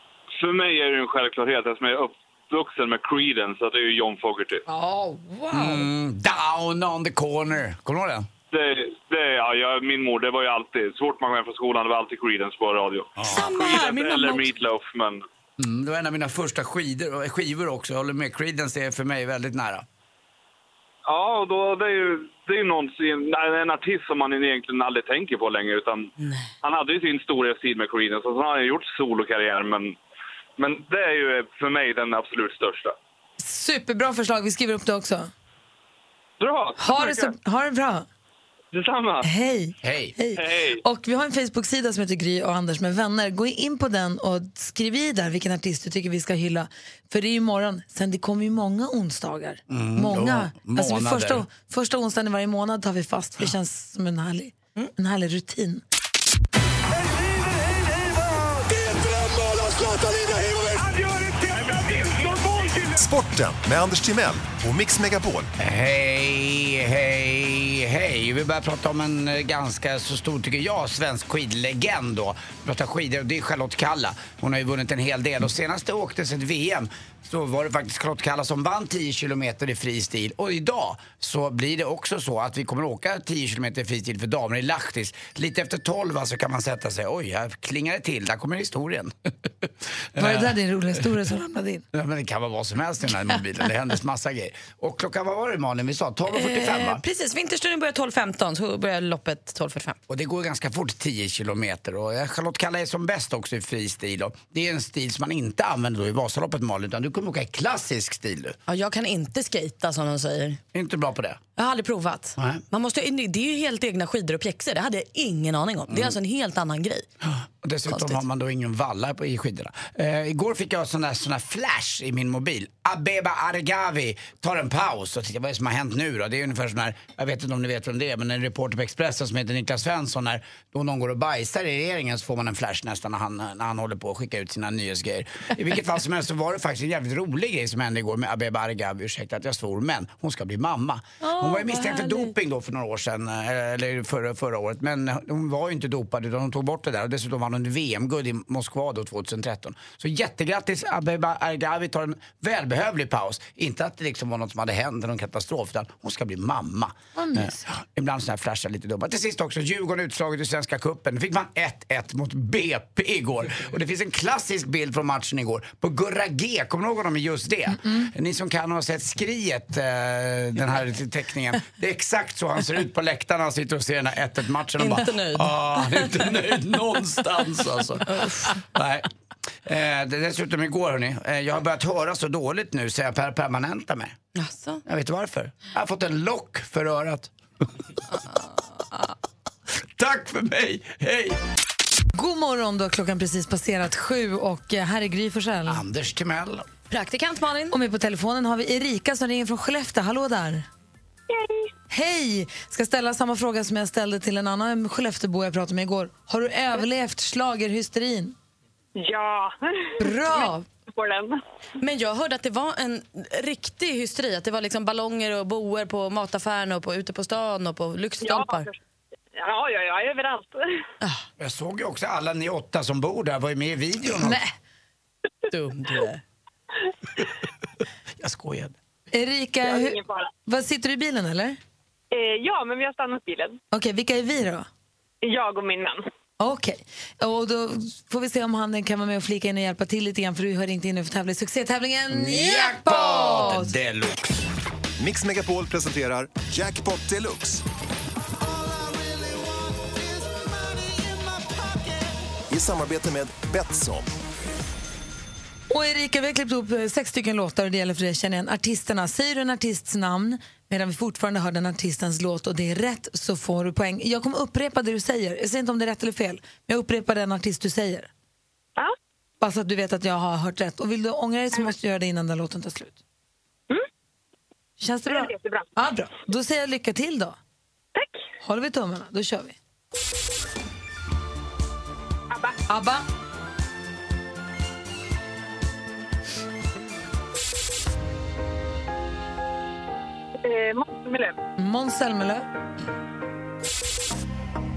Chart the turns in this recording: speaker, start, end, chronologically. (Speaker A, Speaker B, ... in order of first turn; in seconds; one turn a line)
Speaker A: 0.4-4.6
Speaker B: 4.7-5.9
Speaker C: 5.5-8.3
Speaker A: 8.5-15.2
Speaker C: 13.2-13.5
Speaker D: 13.3-14.6
Speaker C: 15.6-19.9
Speaker A: 21.1-26.1
Speaker D: 26.2-26.5
Speaker A: 26.6-30.0
Speaker A: 30.6-32.9
Speaker B: 33.4-35.3
Speaker A: 36.4-36.8
Speaker B: 36.8-38.1
Speaker A: 38.7-39.2
Speaker B: 39.2-55.8
Speaker C: 39.8-40.1
Speaker A: 40.4-40.8
Speaker C: 49.7-51.5
Speaker E: 62.9-65.5
Speaker C: 65.6-89.1
Speaker C: 89.6-90.5
Speaker B: 90.2-91.8
Speaker C: 91.9-97.0
Speaker D: 96.3-100.0
Speaker C: 100.1-108.6
Speaker D: 108.7-110.6
Speaker C: 110.7-111.4
Speaker D: 111.6-117.1
Speaker C: 112.4-112.6
Speaker C: 115.9-116.2
Speaker C: 117.2-179.1
Speaker D: 117.9-118.2
Speaker D: 141.6-142.2
Speaker B: 157.2-157.7
Speaker B: 167.8-168.1
Speaker D: 174.8-176.2
Speaker D: 178.1-178.6
Speaker C: 179.7-184.2
Speaker D: 184.3-184.8
Speaker C: 184.9-187.3
Speaker D: 188.1-189.1
Speaker C: 190.0-191.4
Speaker B: 192.1-195.8
Speaker C: 195.7-196.7
Speaker D: 196.9-197.8
Speaker B: 197.7-200.7
Speaker B: 201.9-208.4
Speaker F: 209.0-211.4
Speaker B: 210.0-210.7
Speaker D: 211.8-218.7
Speaker F: 218.2-218.7
Speaker F: 219.3-220.6
Speaker C: 221.4-224.4
Speaker D: 225.5-226.2
Speaker C: 228.2-228.8
Speaker B: 229.1-231.6
Speaker F: 229.7-230.3
Speaker F: 232.1-233.6
Speaker B: 233.7-234.7
Speaker F: 235.2-236.0
Speaker B: 236.4-243.7
Speaker C: 242.1-244.4
Speaker E: 245.0-247.6
Speaker E: 252.5-254.1
Speaker B: 255.7-268.1
Speaker B: 269.4-273.0
Speaker B: 274.8-277.4
Speaker F: 275.1-275.7
Speaker B: 278.4-279.6
Speaker F: 282.3-282.6
Speaker B: 282.7-283.1
Speaker F: 290.4-291.4
Speaker B: 291.6-292.4